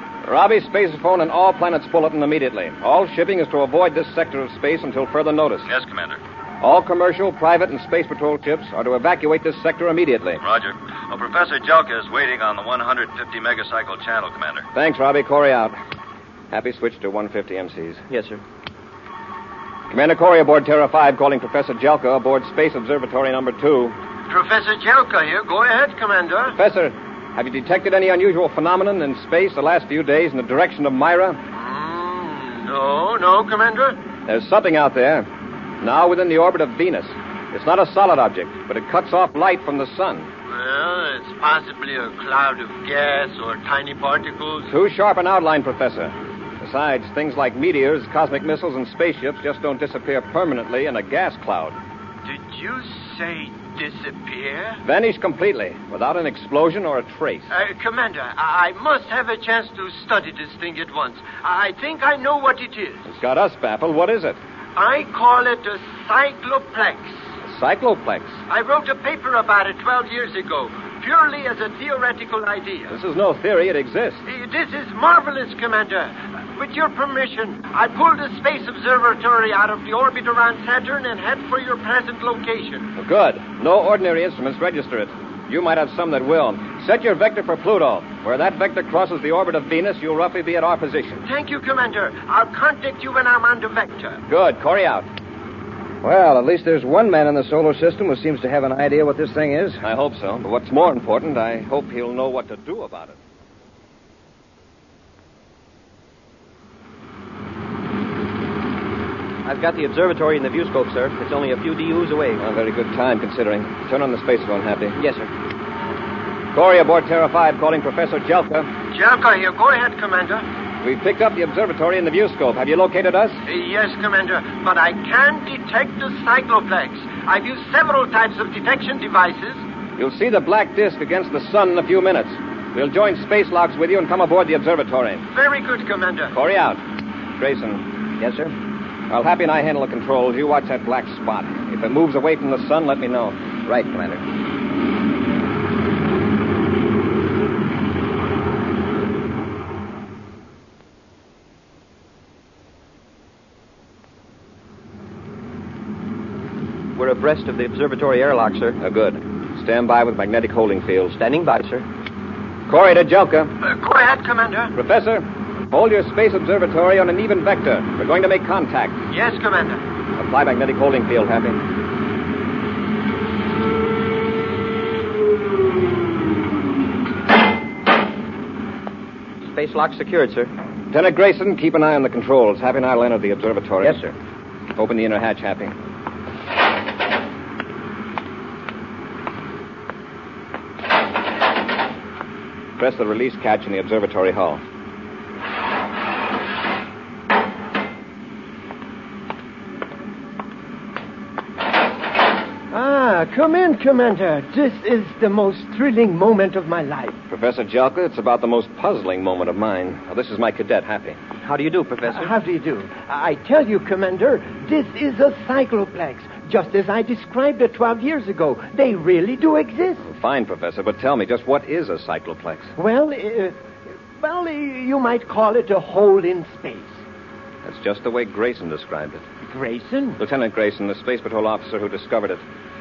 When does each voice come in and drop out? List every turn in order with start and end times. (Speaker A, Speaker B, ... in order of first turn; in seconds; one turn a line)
Speaker A: 0.2-5.7
Speaker B: 5.7-6.2
Speaker A: 6.6-10.4
Speaker B: 10.4-14.7
Speaker A: 14.7-15.8
Speaker A: 16.5-18.0
Speaker C: 18.1-18.4
Speaker A: 19.9-24.0
Speaker D: 24.3-26.6
Speaker A: 26.6-31.4
Speaker D: 31.5-34.0
Speaker A: 34.3-35.3
Speaker A: 35.8-40.3
Speaker D: 40.5-44.7
Speaker A: 44.7-51.8
Speaker D: 52.2-54.8
Speaker A: 54.8-57.5
Speaker D: 57.5-63.1
Speaker A: 63.1-64.4
Speaker D: 64.8-67.2
Speaker A: 67.4-68.4
Speaker D: 68.5-73.0
Speaker A: 72.9-74.2
Speaker D: 74.3-82.9
Speaker A: 83.0-91.2
Speaker D: 91.2-94.2
Speaker A: 94.3-95.1
Speaker E: 96.0-99.8
Speaker A: 99.8-103.2
Speaker C: 109.5-112.4
Speaker A: 112.4-115.0
Speaker C: 115.0-115.3
Speaker A: 116.5-118.7
Speaker D: 118.9-120.5
Speaker A: 120.8-123.4
Speaker D: 123.5-129.6
Speaker A: 130.0-135.3
Speaker D: 135.3-136.3
Speaker A: 136.3-136.8
Speaker A: 137.4-137.8
Speaker E: 138.2-138.5
Speaker A: 139.1-143.5
Speaker E: 143.7-144.2
Speaker C: 156.9-158.8
Speaker A: 158.8-161.1
Speaker C: 161.1-161.9
Speaker A: 162.7-163.5
Speaker D: 163.6-164.7
Speaker A: 164.8-169.0
Speaker D: 169.1-169.8
Speaker A: 170.2-171.6
Speaker C: 179.4-180.5
Speaker A: 180.9-184.1
Speaker C: 183.8-184.1
Speaker A: 184.8-185.8
Speaker A: 192.8-194.6
Speaker D: 202.7-207.2
Speaker A: 207.3-211.2
Speaker C: 211.4-212.3
Speaker D: 212.1-220.0
Speaker A: 220.0-222.7
Speaker D: 222.8-223.6
Speaker D: 224.2-227.0
Speaker A: 227.6-229.2
Speaker D: 229.4-230.2
Speaker A: 230.2-232.4